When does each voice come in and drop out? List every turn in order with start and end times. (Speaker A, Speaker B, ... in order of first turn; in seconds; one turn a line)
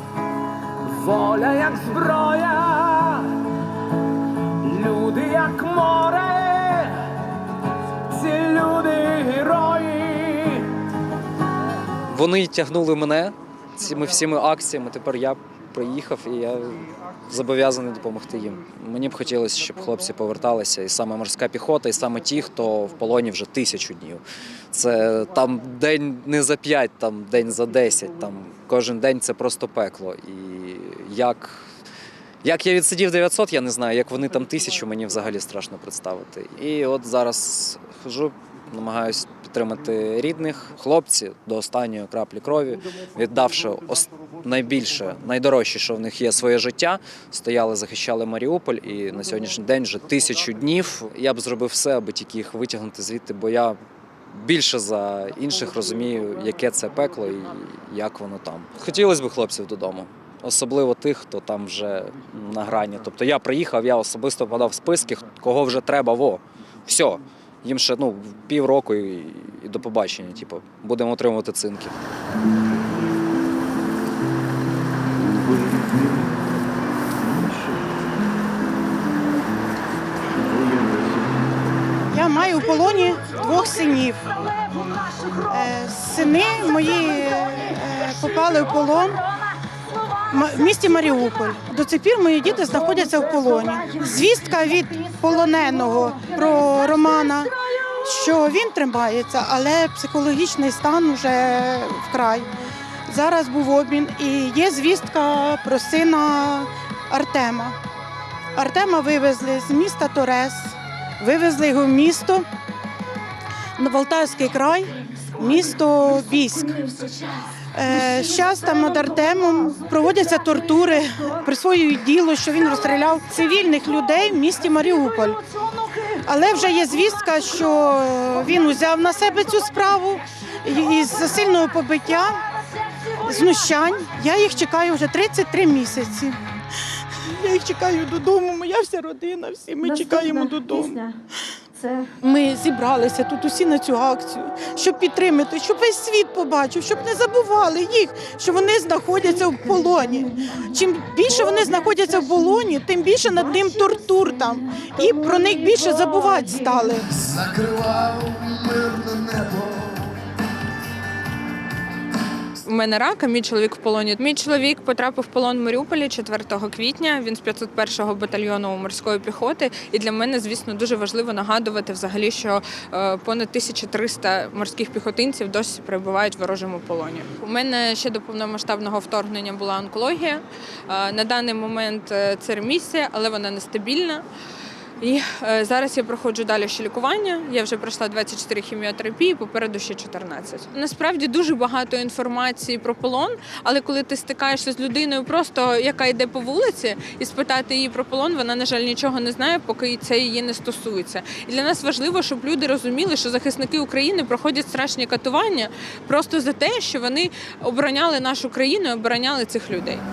Speaker A: 0.8-3.4
Speaker A: 4.6-7.0
Speaker A: 8.1-10.7
Speaker B: 12.1-24.2
Speaker B: 24.7-31.6
Speaker B: 32.4-53.8
Speaker B: 54.3-71.9
Speaker C: 75.3-76.3
Speaker C: 80.6-81.2
Speaker D: 82.1-84.4
Speaker E: 84.5-85.6
Speaker D: 85.5-89.2
Speaker E: 89.7-91.2
Speaker D: 90.3-102.5
Speaker E: 92.9-97.9
Speaker D: 103.1-107.8
Speaker D: 108.5-112.5
Speaker D: 113.8-117.0
Speaker E: 116.8-120.6
Speaker D: 117.7-125.4
Speaker E: 125.0-126.2
Speaker D: 126.2-132.4
Speaker E: 132.6-133.3
Speaker D: 133.2-136.4
Speaker D: 137.1-141.0
Speaker E: 140.0-141.1
Speaker E: 141.8-142.1
Speaker D: 142.2-157.1
Speaker E: 151.5-152.4
Speaker E: 153.4-154.0
Speaker E: 154.7-156.8
Speaker C: 157.1-160.2
Speaker F: 162.6-184.2
Speaker F: 185.0-210.0